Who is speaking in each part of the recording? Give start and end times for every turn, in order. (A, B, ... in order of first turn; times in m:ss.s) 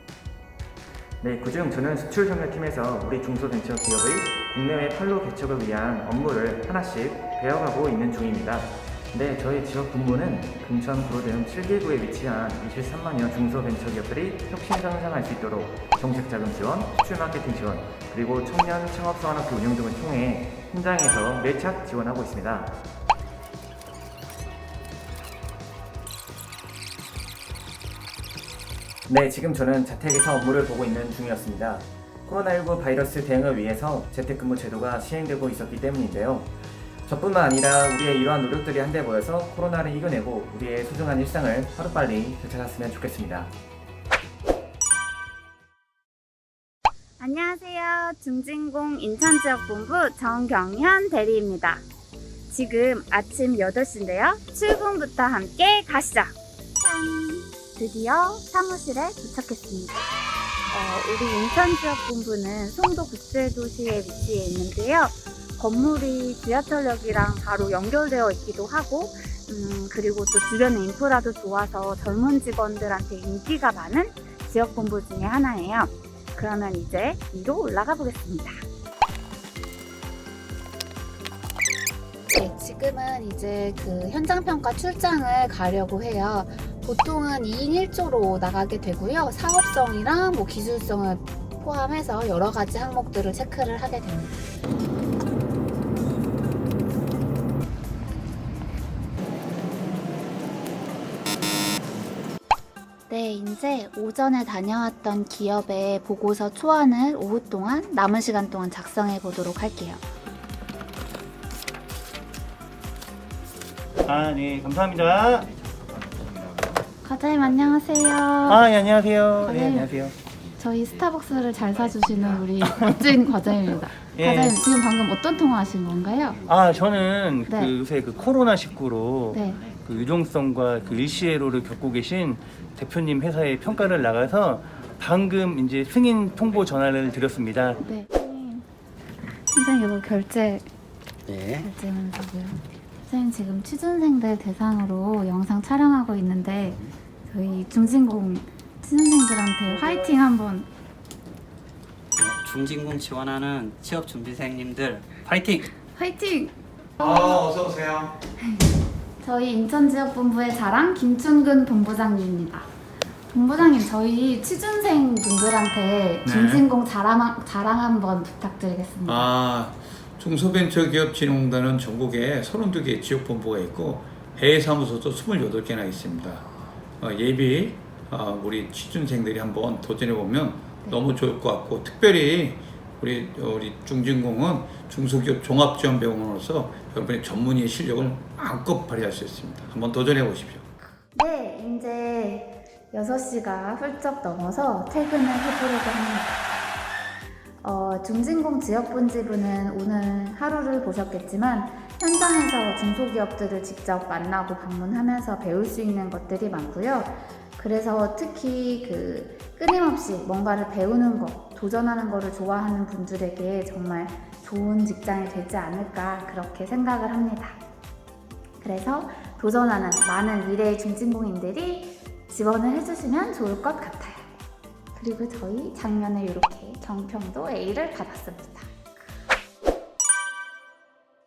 0:01.2-0:22.8 A
0:29.1-0:36.5 A
0:37.1-0:43.5 A
0:47.2-0:51.8 B
0:52.5-0:56.3 B
0:56.8-1:00.0 B
1:00.7-1:18.6 B
1:22.3-1:34.4 B
1:43.1-1:50.0 B
1:54.0-1:55.5 C
1:57.0-1:58.6 B
1:58.4-2:00.1 C
1:59.4-1:59.9 B
2:00.6-2:06.4 B
2:04.0-2:04.6 C
2:06.4-2:17.8 C
2:07.4-2:07.7 B
2:09.3-2:09.6 B
2:17.8-2:18.6 B
2:19.5-2:20.6 B
2:21.6-2:30.7 B
2:32.2-2:35.6 D
2:35.9-2:37.5 B
2:37.0-2:38.1 E
2:38.4-2:42.7 B
2:43.3-2:49.3 B
2:46.2-2:46.6 E
2:49.0-2:56.4 E
2:57.0-3:10.6 E
3:11.1-3:16.4 B
3:17.6-3:37.6 B
3:38.6-3:44.4 B
3:44.9-3:48.7 B